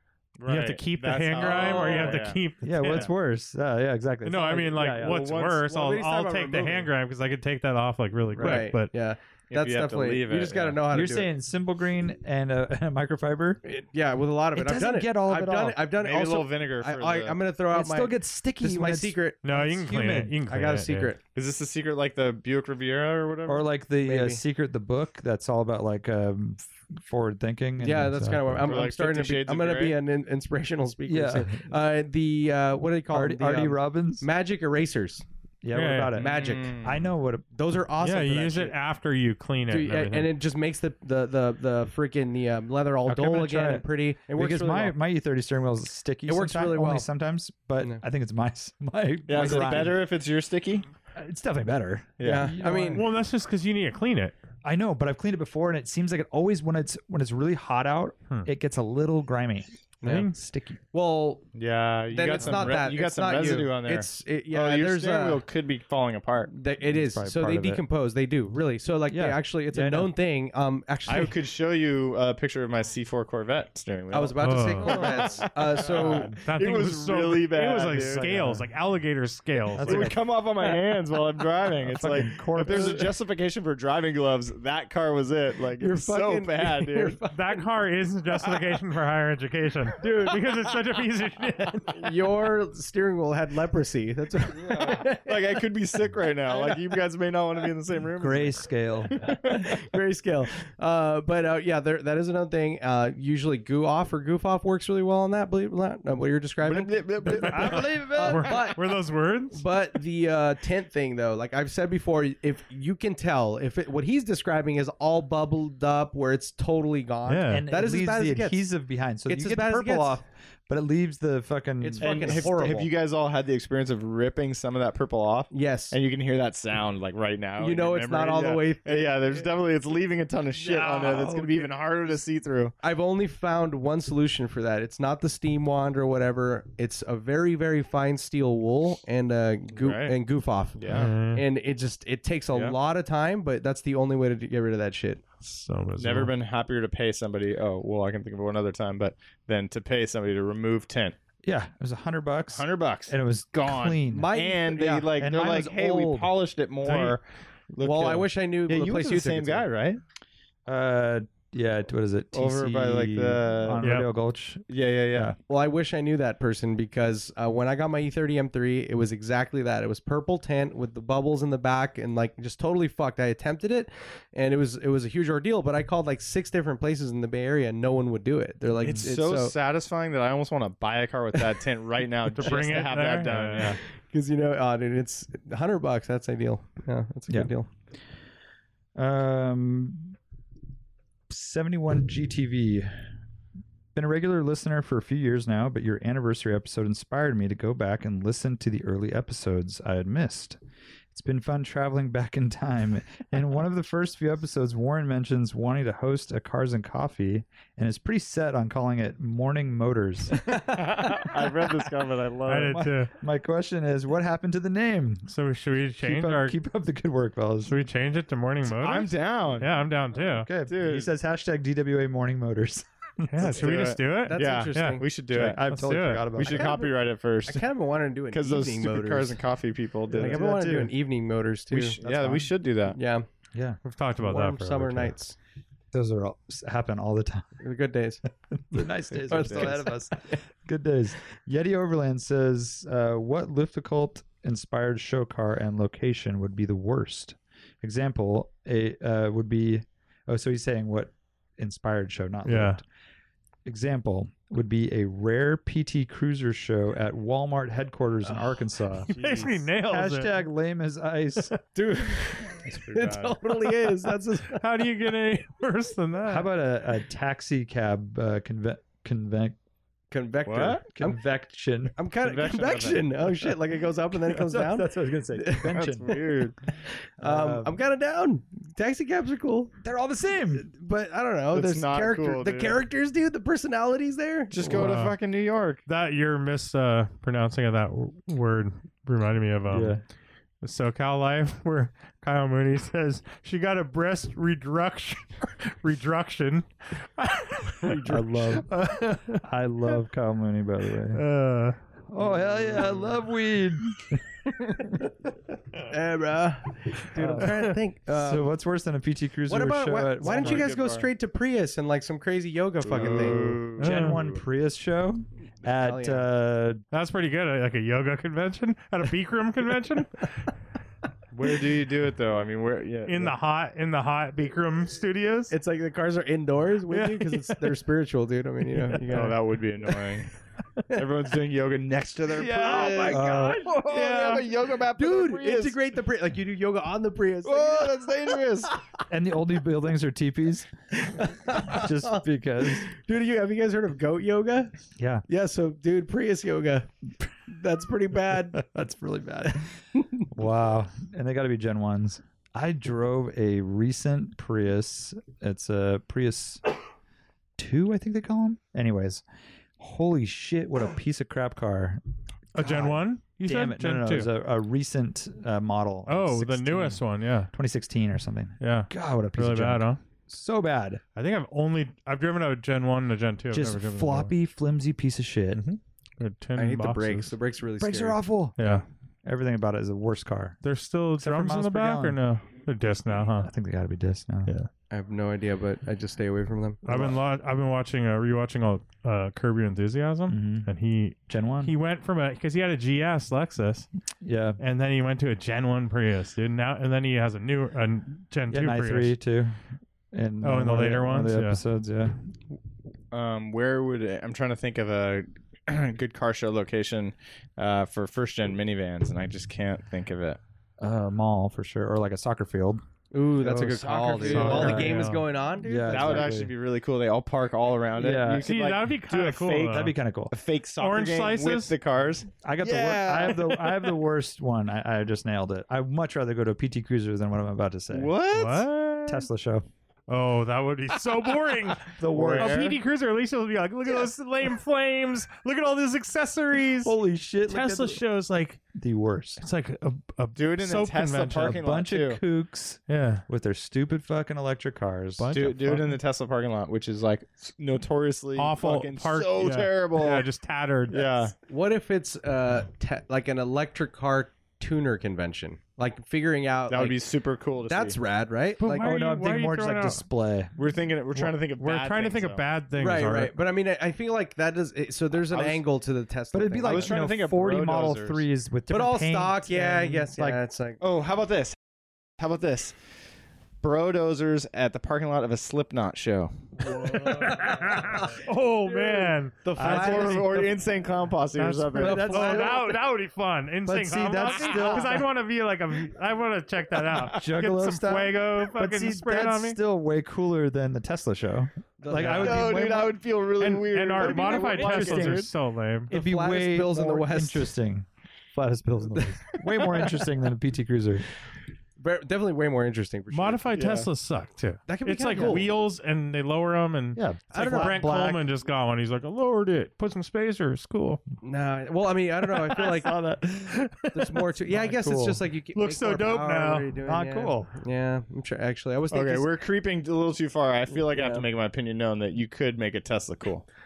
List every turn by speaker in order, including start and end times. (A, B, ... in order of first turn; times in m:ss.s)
0:00.4-0:02.4 A
0:00.5-0:03.1 B
0:01.7-0:02.2 C
0:02.6-0:05.3 D
0:04.2-0:08.9 B
0:05.0-0:05.6 A
0:05.7-0:06.9 C
0:08.4-0:11.3 C
0:09.5-0:10.8 A
0:10.9-0:13.6 D
0:13.6-0:19.5 C
0:14.6-0:15.8 D
0:16.0-0:17.4 A
0:17.7-0:20.3 D
0:19.4-0:21.1 B
0:20.5-0:21.2 C
0:21.4-0:23.7 A
0:23.5-0:28.7 D
0:24.0-0:24.4 C
0:27.8-0:35.2 C
0:28.6-0:30.0 A
0:31.1-0:31.6 D
0:33.1-0:34.3 D
0:35.6-0:37.4 D
0:35.7-0:36.2 B
0:36.2-0:36.8 C
0:36.2-0:37.0 A
0:37.6-0:38.8 C
0:38.0-0:40.3 B
0:39.7-0:45.0 C
0:43.1-0:50.0 D
0:46.3-0:47.1 C
0:49.3-0:50.9 A
0:49.3-0:50.0 C
0:51.2-0:53.0 D
0:52.2-0:52.5 A
0:52.2-0:53.1 C
0:52.9-0:54.4 B
0:54.6-1:00.8 D
1:00.0-1:00.3 C
1:00.0-1:00.3 B
1:00.9-1:01.5 C
1:01.6-1:06.5 A
1:02.1-1:05.4 C
1:06.5-1:11.4 C
1:06.8-1:07.8 D
1:09.1-1:10.1 D
1:11.1-1:18.3 A
1:14.1-1:16.3 C
1:14.4-1:15.0 B
1:14.9-1:15.4 D
1:16.1-1:20.1 B
1:17.9-1:18.7 D
1:19.7-1:20.2 D
1:19.8-1:27.2 A
1:21.8-1:23.1 D
1:22.6-1:23.0 C
1:25.8-1:27.6 C
1:27.3-1:32.1 B
1:30.0-1:30.5 C
1:31.9-1:35.6 C
1:34.7-1:39.8 A
1:36.5-1:37.0 C
1:38.2-1:39.2 D
1:39.2-1:48.8 C
1:46.6-1:48.5 A
1:47.3-1:48.6 D
1:47.4-1:49.6 B
1:49.5-1:58.6 C
1:57.3-1:57.7 B
1:57.5-2:02.8 D
1:59.3-2:00.2 C
2:01.8-2:02.9 C
2:02.0-2:12.7 A
2:05.5-2:06.0 C
2:07.6-2:09.5 C
2:10.6-2:11.7 C
2:12.8-2:25.2 C
2:19.8-2:20.2 A
2:20.8-2:21.1 A
2:20.9-2:21.4 B
2:22.5-2:22.8 A
2:25.4-2:26.3 B
2:26.0-2:31.2 A
2:31.4-2:34.3 D
2:32.5-2:40.0 A
2:34.1-2:35.2 C
2:35.2-2:36.3 D
2:36.8-2:37.2 B
2:37.8-2:39.7 C
2:40.7-2:45.4 D
2:42.4-2:43.8 A
2:43.8-2:44.1 B
2:44.7-2:45.4 A
2:45.5-2:59.5 C
2:58.8-3:03.8 A
3:01.4-3:01.6 C
3:02.3-3:03.8 B
3:04.1-3:07.7 C
3:09.0-3:10.2 D
3:11.3-3:13.1 D
3:14.0-3:20.6 D
3:21.1-3:30.6 D
3:30.5-3:31.3 C
3:30.6-3:32.8 A
3:32.5-3:33.1 B
3:32.6-3:35.3 D
3:35.3-3:36.6 B
3:36.0-3:37.8 D
3:37.7-3:40.5 B
3:38.7-3:39.7 A
3:40.1-3:43.5 D
3:40.7-3:41.1 A
3:43.2-3:45.0 B
3:43.4-3:45.6 A
3:44.2-3:45.1 C
3:45.3-3:46.8 D
3:45.6-3:46.3 B
3:46.4-3:47.6 A
3:46.4-3:46.9 C
3:47.5-3:49.4 C
3:48.3-3:50.9 A
3:50.1-3:50.4 D
3:50.1-3:52.0 C
3:51.7-3:53.0 A
3:52.0-3:52.5 D
3:52.9-3:53.3 C
3:53.8-3:55.1 B
3:54.2-3:55.4 C
3:55.9-3:57.6 D
3:57.6-3:58.2 C
3:58.5-4:12.8 D
3:59.2-4:00.1 C
4:12.5-4:12.8 B
4:13.7-4:19.1 D
4:18.2-4:18.6 C
4:19.1-4:19.6 C
4:19.1-4:20.4 B
4:19.9-4:21.6 D
4:21.8-4:24.6 C
4:22.7-4:23.4 A
4:24.5-4:26.5 B
4:26.3-4:29.6 D
4:30.1-4:31.2 C
4:30.5-4:30.8 A
4:30.9-4:32.0 D
4:32.0-4:36.2 C
4:32.2-4:33.1 A
4:34.3-4:36.1 D
4:35.7-4:36.6 A
4:37.2-4:39.7 C
4:37.2-4:37.8 D
4:39.8-4:40.7 D
4:40.6-4:44.9 C
4:41.5-4:42.8 A
4:44.5-4:45.8 A
4:44.7-4:45.2 B
4:45.9-4:50.0 B
4:49.7-4:50.0 D
4:50.6-4:58.0 B
4:57.8-4:58.6 C
4:58.1-4:58.7 D
4:58.6-4:59.4 B
4:59.4-5:01.2 D
5:01.1-5:01.8 B
5:02.1-5:04.2 D
5:02.2-5:03.0 C
5:05.8-5:08.5 C
5:07.2-5:07.6 D
5:07.2-5:07.7 B
5:08.1-5:10.6 D
5:09.5-5:13.6 C
5:10.2-5:11.1 A
5:12.8-5:14.3 A
5:13.8-5:14.2 B
5:13.8-5:16.8 D
5:15.6-5:16.2 C
5:16.9-5:20.3 B
5:21.3-5:23.4 A
5:23.1-5:25.5 B
5:25.5-5:29.4 C
5:26.9-5:27.7 B
5:29.0-5:30.3 A
5:30.9-5:35.8 A
5:32.3-5:38.7 C
5:32.4-5:33.7 D
5:37.4-5:38.7 A
5:39.1-5:40.7 D
5:41.0-5:44.7 C
5:41.5-5:42.9 D
5:45.0-5:45.2 D
5:45.3-5:46.9 C
5:47.5-5:48.6 C
5:48.5-5:56.6 D
5:57.6-5:59.2 D
5:59.8-6:02.0 D
6:02.6-6:04.3 B
6:02.6-6:11.0 D
6:06.1-6:07.5 B
6:08.6-6:10.0 B
6:11.2-6:14.3 B
6:13.5-6:15.6 D
6:15.5-6:17.3 B
6:16.6-6:18.2 C
6:17.8-6:20.6 D
6:18.6-6:18.8 B
6:20.6-6:23.5 B
6:21.2-6:22.2 D
6:23.4-6:24.5 D
6:24.9-6:27.0 C
6:26.8-6:33.9 B
6:26.9-6:27.2 D
6:30.3-6:30.7 D
6:31.3-6:31.7 D
6:34.2-6:34.6 D
6:34.6-6:39.2 B
6:38.5-6:39.6 D
6:40.1-6:42.2 D
6:40.4-6:41.6 B
6:43.1-6:50.4 A
6:50.8-6:52.8 D
6:53.1-6:56.4 C
6:53.4-6:55.1 D
6:54.2-6:55.3 B
6:54.3-6:55.0 A
6:55.6-6:56.5 D
6:55.9-7:03.8 A
6:58.0-6:58.5 D
6:58.4-7:00.0 B
6:59.7-7:00.3 D
7:00.8-7:01.8 B
7:02.4-7:08.1 D
7:07.9-7:08.7 A
7:08.3-7:09.2 B
7:09.1-7:09.7 D
7:10.1-7:17.0 B
7:12.0-7:12.8 D
7:12.0-7:12.8 A
7:16.8-7:18.0 D
7:17.5-7:18.6 B
7:18.7-7:19.4 D
7:19.4-7:21.6 B
7:20.4-7:22.2 A
7:21.4-7:25.8 D
7:22.9-7:23.2 B
7:25.2-7:26.0 B
7:25.3-7:30.3 A
7:28.4-7:31.2 B
7:30.9-7:31.3 A
7:31.5-7:37.1 C
7:36.7-7:38.0 A
7:37.6-7:38.9 C
7:38.6-7:40.0 B
7:38.6-7:40.6 D
7:40.6-7:42.4 A
7:41.6-7:43.3 B
7:42.8-7:47.0 C
7:45.3-7:45.6 A
7:46.3-7:50.4 D
7:46.6-7:48.2 A
7:48.7-7:50.8 C
7:50.8-7:51.6 A
7:52.2-7:52.8 A
7:53.6-7:57.4 A
7:56.7-8:00.4 B
7:58.7-8:00.6 C
7:59.6-8:02.4 A
7:59.7-8:00.0 D
8:01.4-8:09.6 B
8:01.8-8:02.6 D
8:02.0-8:02.6 C
8:03.7-8:05.0 D
8:07.1-8:13.0 D
8:11.8-8:12.7 C
8:12.0-8:12.3 B
8:12.2-8:15.3 A
8:13.4-8:15.9 B
8:14.0-8:15.3 D
8:15.9-8:17.5 C
8:15.9-8:21.0 D
8:19.0-8:20.0 C
8:21.8-8:23.5 C
8:23.1-8:31.0 B
8:23.5-8:23.9 A
8:24.7-8:25.5 C
8:27.0-8:28.3 D
8:27.3-8:27.8 C
8:31.2-8:33.0 C
8:32.6-8:33.6 D
8:33.4-8:33.9 B
8:33.9-8:39.3 C
8:34.5-8:35.2 D
8:35.5-8:36.7 B
8:36.8-8:37.5 D
8:38.9-8:43.4 A
8:40.8-8:41.3 C